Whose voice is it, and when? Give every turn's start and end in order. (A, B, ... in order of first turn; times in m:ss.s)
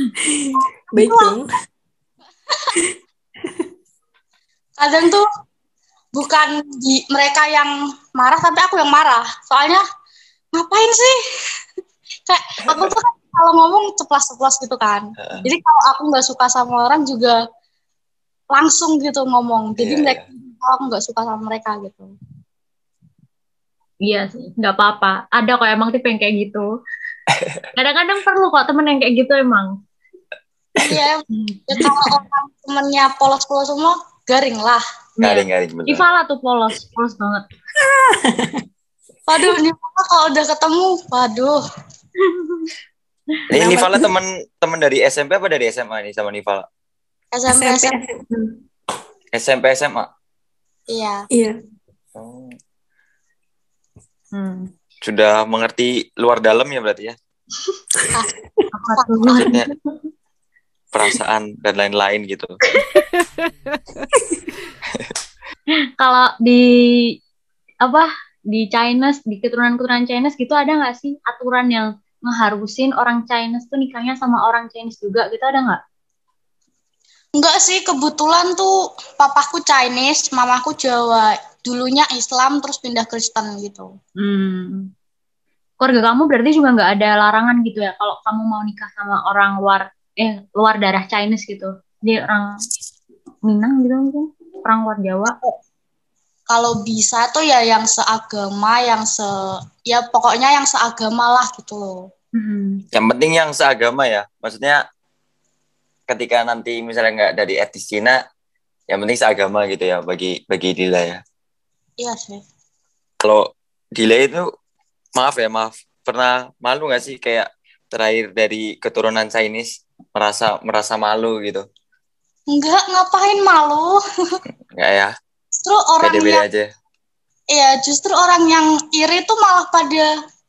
0:00.2-0:01.6 A
0:00.9-0:01.4 B
0:04.8-0:05.3 B
0:06.1-0:09.8 B
0:10.5-0:11.2 B
0:12.3-0:17.4 B
0:12.6-0:12.9 C
0:18.5-0:22.1 B
0:19.8-0:20.2 C
0:24.0-0:26.7 D
0:27.3-0:27.6 C
0:27.7-0:29.7 D
0:30.8-0:34.8 B
0:31.3-0:31.8 D
0:35.2-0:37.4 D
0:35.2-0:36.0 C
0:37.8-0:38.6 A
0:39.3-0:41.6 B
0:42.2-0:42.7 D
0:43.5-0:46.6 C
0:43.5-0:44.1 A
0:47.3-0:48.0 B
0:47.5-0:48.2 A
0:49.3-0:50.1 C
0:50.9-0:51.2 B
0:51.3-0:51.6 A
0:52.2-0:52.6 C
0:54.3-0:54.6 D
0:55.0-0:57.1 C
0:58.0-0:58.6 A
0:58.7-0:59.6 D
0:59.0-0:59.3 B
0:59.3-0:59.7 C
1:00.9-1:02.6 C
1:04.0-1:04.4 A
1:06.0-1:07.1 D
1:07.8-1:15.8 D
1:17.4-1:23.9 B
1:24.2-1:24.9 D
1:25.8-1:32.6 D
1:33.5-1:35.4 D
1:36.5-1:42.1 B
1:42.3-1:42.8 D
1:42.9-1:44.8 C
1:46.1-1:48.2 C
1:48.9-1:51.2 C
1:52.0-1:52.4 B
1:53.2-1:54.5 C
1:55.2-2:01.6 C
2:02.5-2:04.4 B
2:04.8-2:05.1 C
2:05.6-2:06.4 B
2:06.0-2:06.7 C
2:07.5-2:10.1 B